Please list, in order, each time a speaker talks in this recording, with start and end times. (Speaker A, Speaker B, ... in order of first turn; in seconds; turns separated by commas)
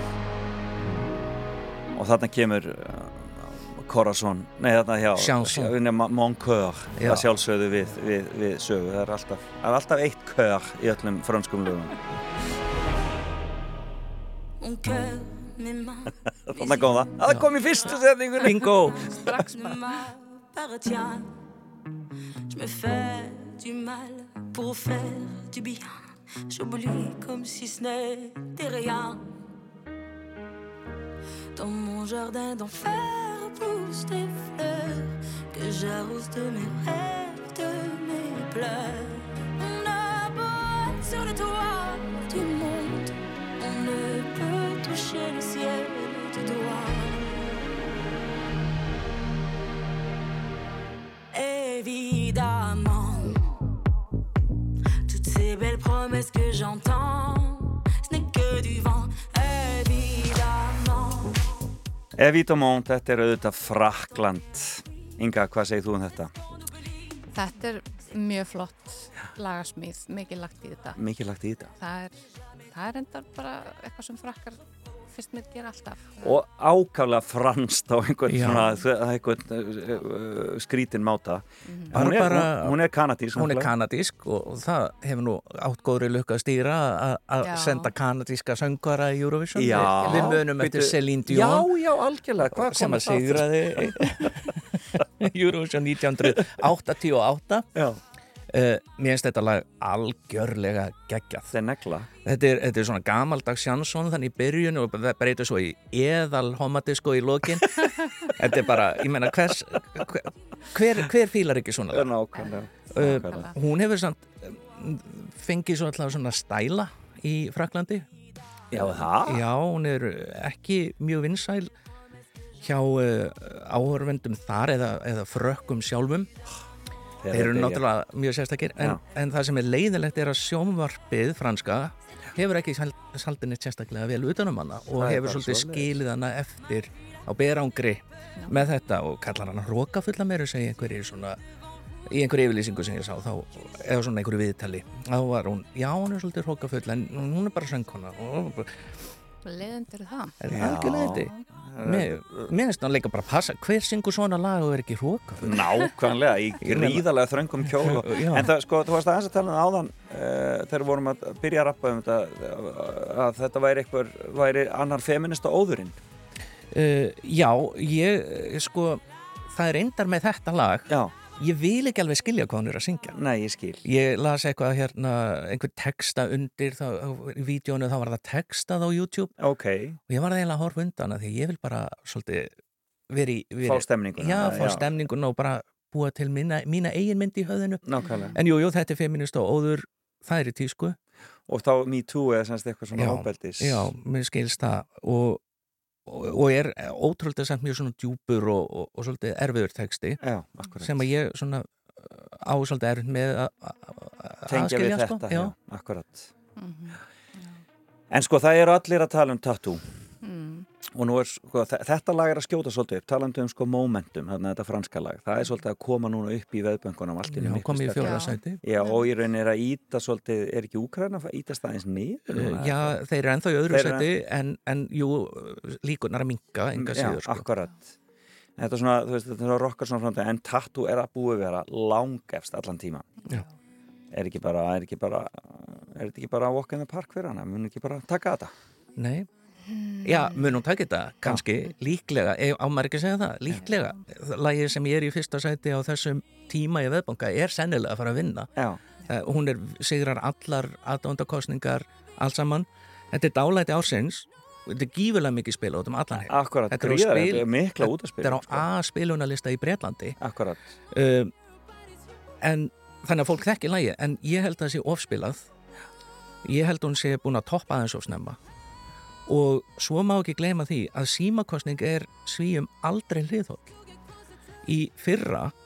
Speaker A: 1.9-11.9, Speaker B: 5.2-5.8, Speaker B: 7.0-7.3, Speaker C: 14.6-17.1, Speaker A: 16.5-19.4, Speaker B: 18.4-18.9, Speaker C: 19.0-21.3, Speaker D: 19.1-20.0, Speaker C: 22.5-29.2, Speaker C: 31.5-47.5, Speaker C: 51.3-53.4, Speaker C: 55.1-61.4, Speaker A: 62.2-66.3, Speaker D: 67.3-71.0, Speaker A: 70.9-71.7, Speaker D: 71.8-76.4, Speaker A: 76.2-83.7, Speaker B: 78.3-78.8, Speaker D: 81.7-82.1, Speaker B: 81.9-82.8, Speaker B: 83.3-91.7, Speaker D: 87.4-87.9, Speaker A: 89.5-95.0, Speaker D: 89.8-90.4, Speaker B: 92.5-97.7, Speaker A: 96.2-96.7, Speaker A: 97.7-98.0, Speaker B: 98.5-101.5, Speaker A: 101.5-102.1, Speaker B: 102.2-107.7, Speaker D: 107.8-108.3, Speaker B: 108.4-112.2, Speaker A: 111.9-113.5, Speaker D: 112.3-113.6, Speaker B: 112.9-118.0, Speaker A: 118.7-119.4, Speaker B: 118.7-121.7, Speaker B: 122.6-126.3, Speaker A: 127.2-127.8, Speaker B: 127.3-141.4, Speaker A: 135.0-135.9, Speaker D: 138.4-138.7, Speaker B: 142.1-148.9, Speaker D: 149.4-151.3, Speaker B: 150.4-151.3, Speaker A: 150.5-152.5, Speaker B: 151.8-155.7, Speaker A: 155.4-166.0, Speaker B: 156.6-157.1, Speaker B: 157.6-158.5, Speaker B: 166.7-173.2, Speaker A: 170.9-171.2, Speaker A: 173.1-173.8, Speaker B: 173.8-179.3, Speaker A: 179.4-180.0, Speaker B: 180.1-182.5, Speaker B: 183.1-191.0, Speaker A: 183.6-184.9, Speaker A: 187.8-188.4, Speaker D: 188.0-188.4, Speaker A: 191.5-193.9, Speaker B: 192.9-195.4, Speaker B: 196.1-200.2, Speaker A: 200.2-201.1, Speaker B: 200.8-205.5, Speaker A: 204.5-206.3, Speaker D: 206.6-207.6, Speaker A: 208.1-209.8, Speaker D: 210.2-210.7, Speaker A: 210.9-223.0, Speaker B: 217.3-218.6, Speaker D: 217.9-219.1, Speaker B: 222.3-227.5, Speaker A: 223.7-224.1, Speaker A: 226.7-227.9, Speaker A: 228.6-233.1, Speaker D: 233.2-233.5, Speaker A: 234.1-238.5, Speaker B: 238.9-239.3, Speaker D: 239.7-240.6, Speaker B: 240.0-248.5, Speaker A: 241.2-241.5, Speaker A: 248.6-248.8, Speaker B: 249.1-260.2, Speaker A: 256.2-258.7, Speaker A: 260.2-260.7, Speaker B: 260.9-261.3, Speaker B: 262.4-265.5, Speaker B: 266.4-268.4, Speaker B: 269.3-273.7, Speaker B: 274.6-275.5